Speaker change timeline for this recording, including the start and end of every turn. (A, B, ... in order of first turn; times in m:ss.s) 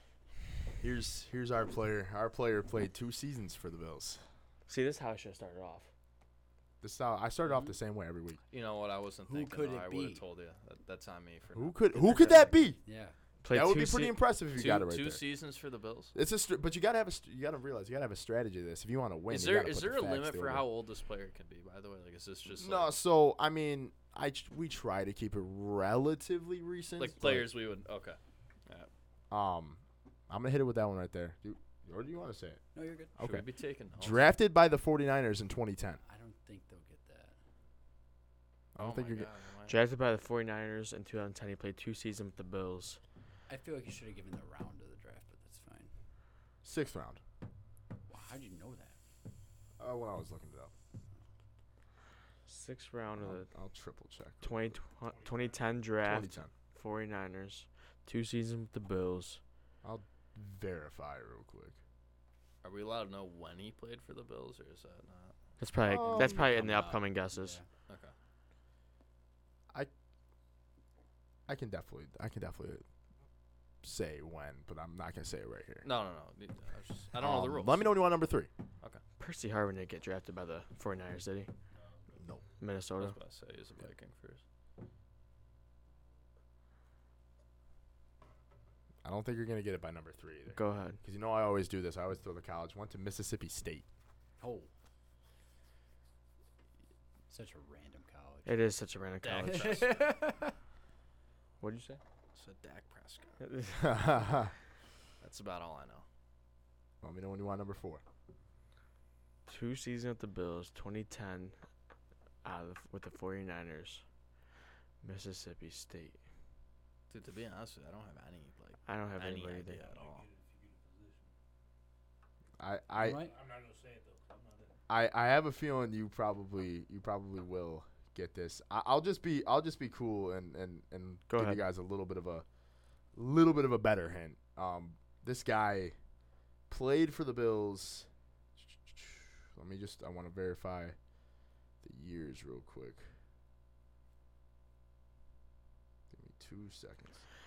0:00.8-0:04.2 A
0:04.7-0:05.9 B
0:06.8-0:08.4 A
0:07.4-0:07.7 C
0:08.5-0:12.4 D
0:09.2-0:10.2 C
0:11.5-0:12.8 A
0:12.0-0:13.2 C
0:13.4-0:14.2 B
0:13.5-0:15.2 A
0:14.5-0:16.1 D
0:16.1-0:20.6 A
0:19.3-0:22.9 D
0:22.5-0:27.5 A
0:27.0-0:28.9 D
0:29.3-0:32.6 A
0:32.7-0:33.2 C
0:33.2-0:33.4 A
0:33.2-0:34.2 D
0:34.0-0:36.0 A
0:36.0-0:37.4 C
0:38.7-0:39.3 A
0:38.8-0:39.8 D
0:39.7-0:43.0 B
0:43.5-0:45.9 C
0:46.6-0:47.2 A
0:48.1-0:49.0 C
0:49.8-0:50.7 A
0:52.5-0:53.5 B
0:53.2-0:54.8 A
0:54.4-0:59.4 B
0:55.1-0:55.8 E
0:56.0-0:56.5 A
0:59.8-1:01.8 A
1:02.6-1:05.3 D
1:05.6-1:07.6 B
1:05.8-1:06.5 A
1:06.1-1:07.1 D
1:07.3-1:07.7 C
1:07.9-1:08.1 D
1:11.5-1:12.8 A
1:13.8-1:15.8 A
1:15.8-1:18.0 D
1:17.2-1:18.5 A
1:19.2-1:21.5 B
1:21.7-1:22.2 E
1:22.6-1:23.2 B
1:23.0-1:24.4 D
1:29.0-1:33.8 A
1:30.5-1:31.0 B
1:34.4-1:34.7 C
1:37.3-1:38.6 C
1:38.4-1:39.8 B
1:39.2-1:40.2 D
1:39.4-1:40.5 C
1:41.6-1:41.9 B
1:41.8-1:43.4 D
1:43.4-1:44.0 B
1:43.8-1:44.5 A
1:45.2-1:46.0 D
1:47.0-1:48.0 A
1:49.5-1:51.6 B
1:52.4-1:54.0 B
1:55.0-1:56.2 B
1:57.1-2:00.2 D
1:58.9-1:59.8 B
1:59.7-2:01.3 E
2:02.6-2:03.2 A
2:03.0-2:03.3 C
2:03.0-2:04.8 E
2:04.9-2:12.4 A
2:11.3-2:11.6 B
2:13.1-2:15.9 A
2:16.7-2:21.0 A
2:21.8-2:23.1 A
2:26.1-2:27.2 A